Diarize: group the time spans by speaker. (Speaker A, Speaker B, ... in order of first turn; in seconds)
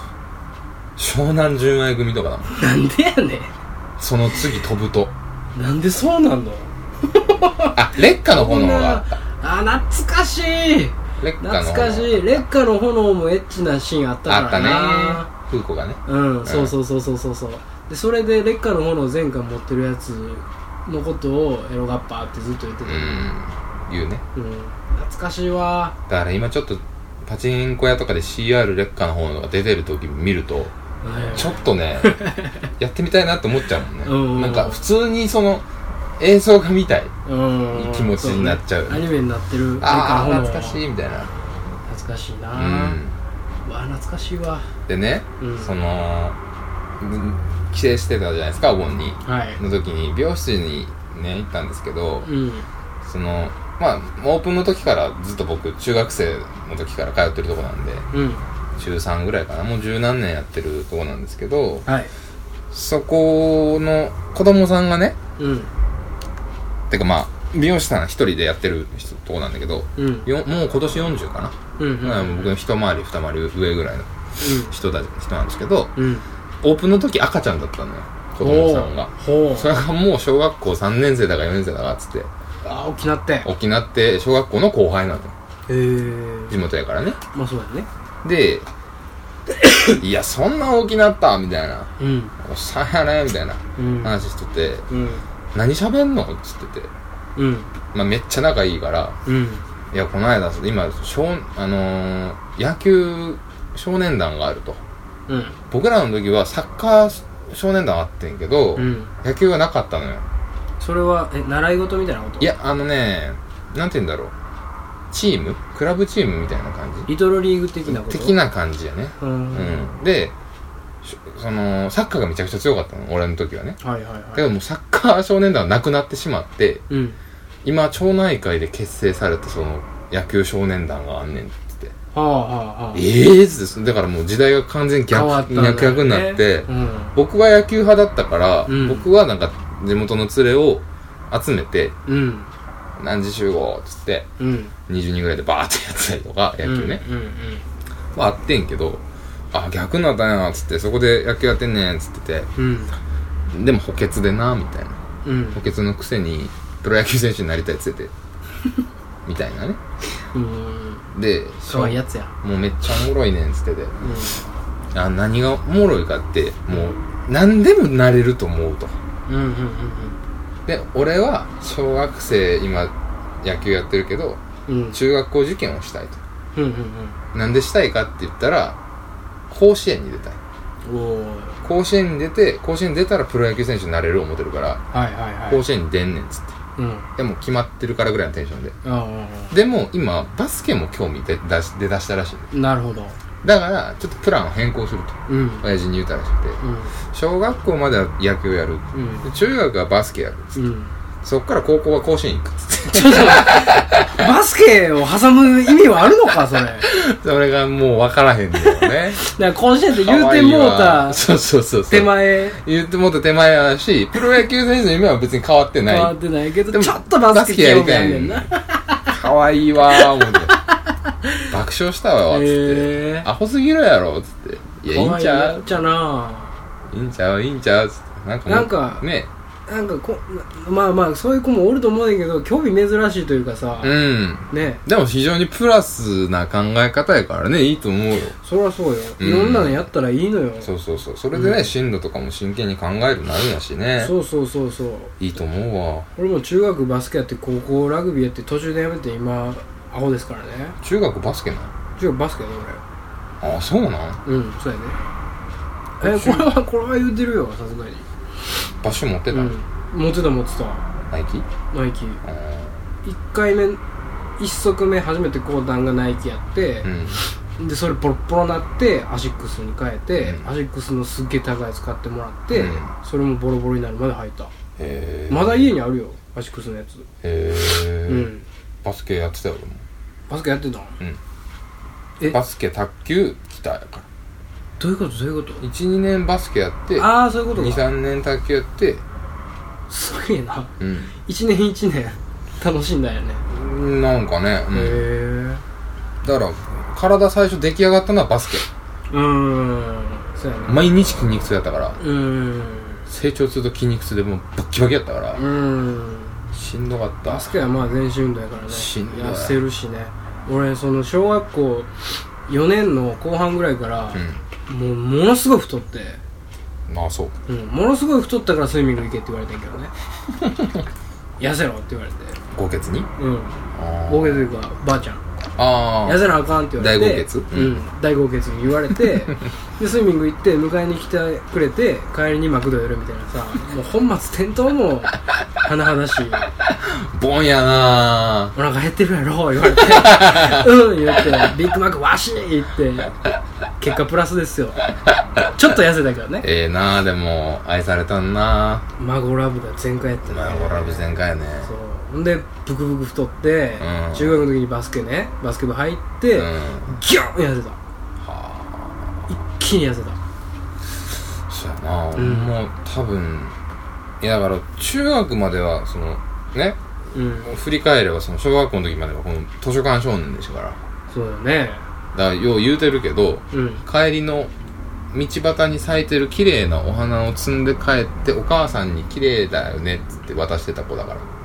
Speaker A: 1.0-2.5, 4.0-5.1, 7.8-9.1, 11.2-12.4, 14.3-16.7, 22.9-24.2, 26.1-30.7, 31.3-32.2, 32.8-35.6, 36.2-37.1, 37.7-39.1, 39.8-41.3, 42.5-43.2, 44.9-46.4, 47.0-52.3, 53.0-58.0, 58.8-61.9, 62.7-65.2, 66.9-75.9, 76.6-82.3, 83.5-85.3, 86.5-87.2, 88.2-88.7, 90.0-94.9, 95.5-96.9, 97.9-99.2, 99.9-104.8, 105.7-110.2, 112.4-114.3, 115.1-117.1, 117.9-120.3, 121.0-123.8, 124.3-126.8, 127.6-131.9, 132.9-142.0, 143.0-144.3, 144.9-147.0, 148.1-152.5, 153.5-155.0, 155.5-158.1, 159.2-159.8, 161.1-164.0, 164.9-168.9, 170.7-174.4, 174.9-176.2, 177.3-178.8, 179.5-180.4, 181.6-184.8, 185.5-186.6, 187.2-188.8, 189.5-192.5, 193.4-200.5, 201.2-204.2, 206.8-209.2, 209.9-216.2, 216.7-218.5, 219.1-220.6, 221.5-225.7, 226.9-229.3, 233.8-238.4, 239.2-239.8, 240.6-244.1, 245.2-246.1, 250.8-251.7, 253.4-254.2, 256.0-256.5, 258.8-259.6, 261.1-261.5, 262.2-262.8, 266.8-267.2, 270.2-270.5, 272.5-272.9, 274.8-275.7, 277.2-278.3, 278.8-279.8, 282.2-284.1, 285.6-289.0, 290.8-291.1, 293.5-295.1, 296.2-298.7, 300.7-302.0, 303.1-305.4, 306.5-307.7, 308.7-309.6, 314.1-314.4, 316.9-317.4, 320.4-320.8, 322.5-323.1, 323.8-324.4, 325.6-327.8, 336.7-338.5, 339.7-340.7, 346.4-348.9, 350.3-351.7, 353.8-354.4, 356.4-356.9, 358.2-359.1, 361.5-363.6, 364.2-366.8, 367.4-370.8, 372.1-374.5, 375.1-381.3
Speaker B: 2.5-3.5, 5.5-15.3, 16.1-23.3, 24.4-25.9, 31.0-32.7, 34.0-34.8, 37.3-40.8, 41.9-43.0, 43.6-44.7, 45.4-45.8, 49.2-49.6, 52.2-52.7, 58.1-58.4, 61.9-62.1, 65.4-65.7, 70.0-70.3, 71.8-72.5, 74.4-74.8, 76.0-76.2, 78.4-79.7, 82.6-83.5, 85.7-86.6, 87.3-87.9, 92.0-92.3, 93.8-94.2, 94.9-95.2, 97.4-97.7, 99.2-99.6, 105.3-105.6, 108.8-109.1, 110.8-112.5, 117.1-118.4, 119.2-119.9, 123.8-124.5, 126.9-127.2, 132.1-133.1, 135.1-137.2, 138.7-139.1, 142.1-142.5, 144.4-144.7, 146.6-147.6, 152.6-152.9, 155.2-155.6, 160.3-161.1, 161.7-162.3, 164.0-164.4, 169.3-170.2, 174.7-175.0, 176.5-177.2, 180.8-181.6, 184.9-185.6, 186.8-187.1, 188.8-189.5, 192.5-193.2, 195.3-195.7, 196.6-196.9, 198.9-199.3, 200.6-200.9, 202.9-206.9, 208.8-211.2, 211.9-212.6, 215.9-219.1, 219.9-220.5, 221.2-221.5, 222.3-223.3, 224.9-226.5, 228.5-229.1, 229.7-234.0, 234.5-234.8, 238.4-240.7, 241.3-241.6, 244.0-245.1, 246.2-250.8, 252.0-252.8, 254.2-255.0, 256.0-258.1, 259.3-260.8, 261.7-262.2, 263.0-263.8, 264.4-274.5, 275.3-277.1, 278.1-278.4, 280.3-281.0, 284.8-285.6, 287.0-287.9, 289.9-290.7, 291.3-293.5, 294.7-295.6, 299.1-300.9, 302.0-303.0, 305.4-306.4, 307.2-311.9, 312.5-316.2, 317.5-319.9, 321.4-322.4, 323.2-325.2, 326.1-336.5, 337.7-343.1, 343.8-344.8, 345.5-346.5, 349.0-357.8, 359.3-360.2, 362.1-362.5, 367.1-367.5, 371.1-371.9, 373.5-373.9